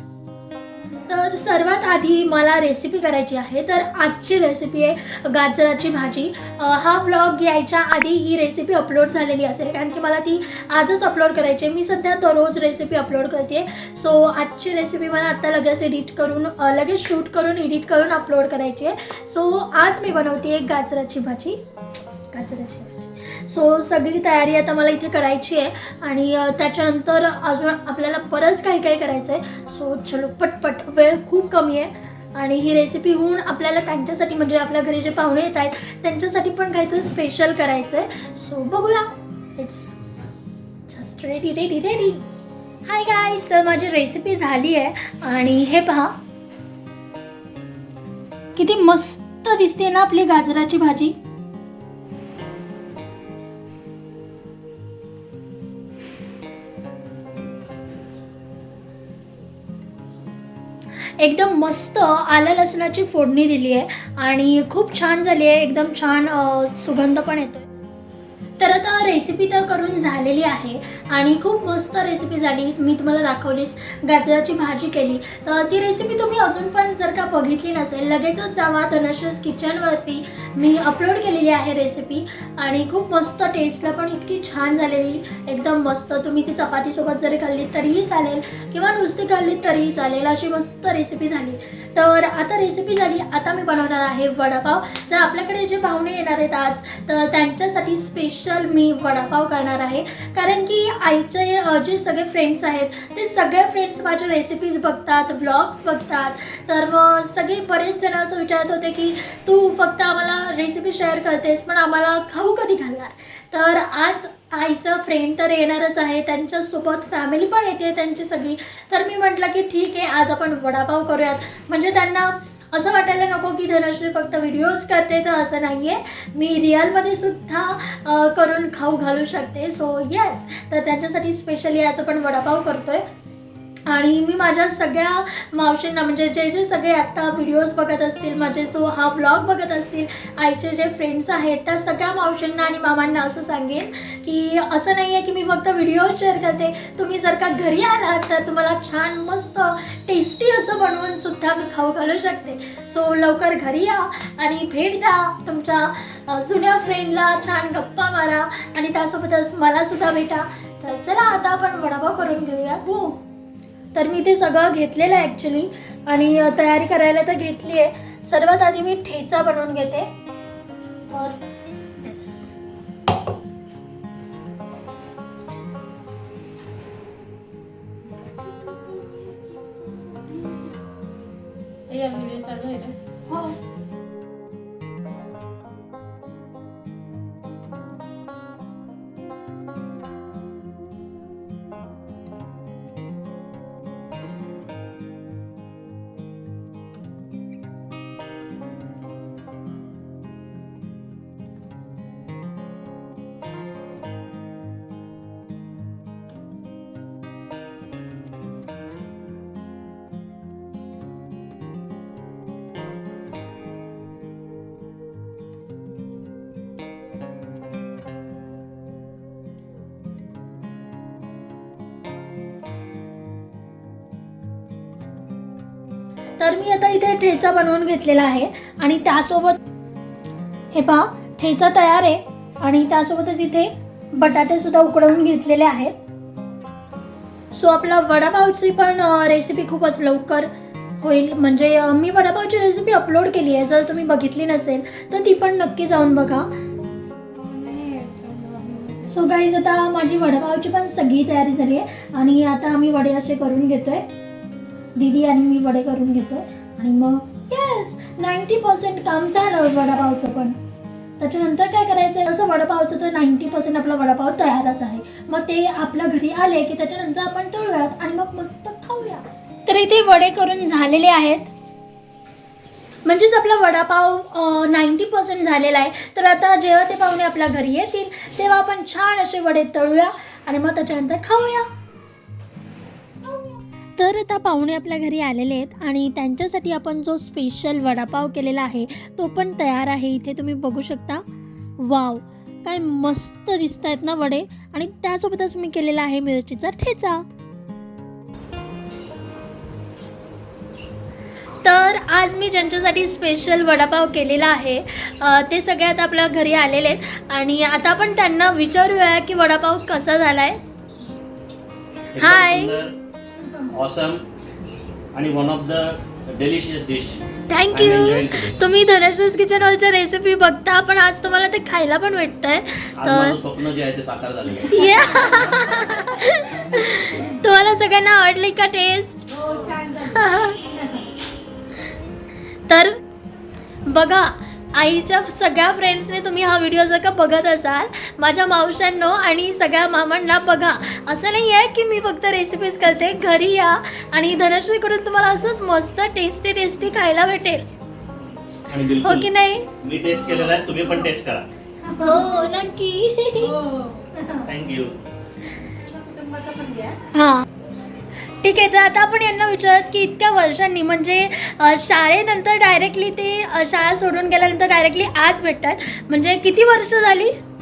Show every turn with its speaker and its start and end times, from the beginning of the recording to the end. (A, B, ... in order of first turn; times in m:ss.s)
0:01.0-0:21.6 A
0:22.3-0:40.0 A
0:40.9-0:42.3 A
0:42.8-0:46.2 A
0:48.6-0:51.2 A
1:01.2-1:07.7 A
1:08.6-2:13.0 A
2:13.9-2:43.2 A
2:44.0-2:50.1 A
2:51.1-2:51.4 A
2:52.0-2:52.5 A
3:01.9-3:03.0 B
3:03.3-3:03.6 A
3:46.4-3:49.6 A
3:50.7-3:56.0 A
3:57.5-4:06.5 A
4:07.4-4:09.2 B
4:09.1-4:14.1 A
4:15.0-4:20.6 A
4:21.2-4:31.5 A
4:33.0-4:41.7 A
4:43.3-4:51.2 A
4:51.8-4:57.2 A
5:01.6-5:10.6 A
5:12.1-5:13.0 C
5:12.2-5:12.8 A
5:13.7-5:14.2 C
5:15.1-5:17.2 C
5:17.5-5:23.4 A
5:17.7-5:18.6 C
5:23.0-5:24.8 C
5:24.6-5:29.3 A
5:24.8-5:25.9 B
5:29.3-5:31.1 B
5:30.1-5:30.6 A
5:32.7-5:33.0 A
5:33.9-5:47.6 A
5:48.7-5:49.3 C
5:49.0-5:49.7 A
5:49.8-5:51.5 C
5:50.3-5:51.1 B
5:51.8-5:52.5 B
5:52.0-5:53.6 A
5:53.4-5:54.1 B
5:54.1-5:54.5 A
5:54.5-5:55.0 C
5:55.6-5:57.0 B
5:57.1-5:57.4 A
5:58.4-6:07.3 A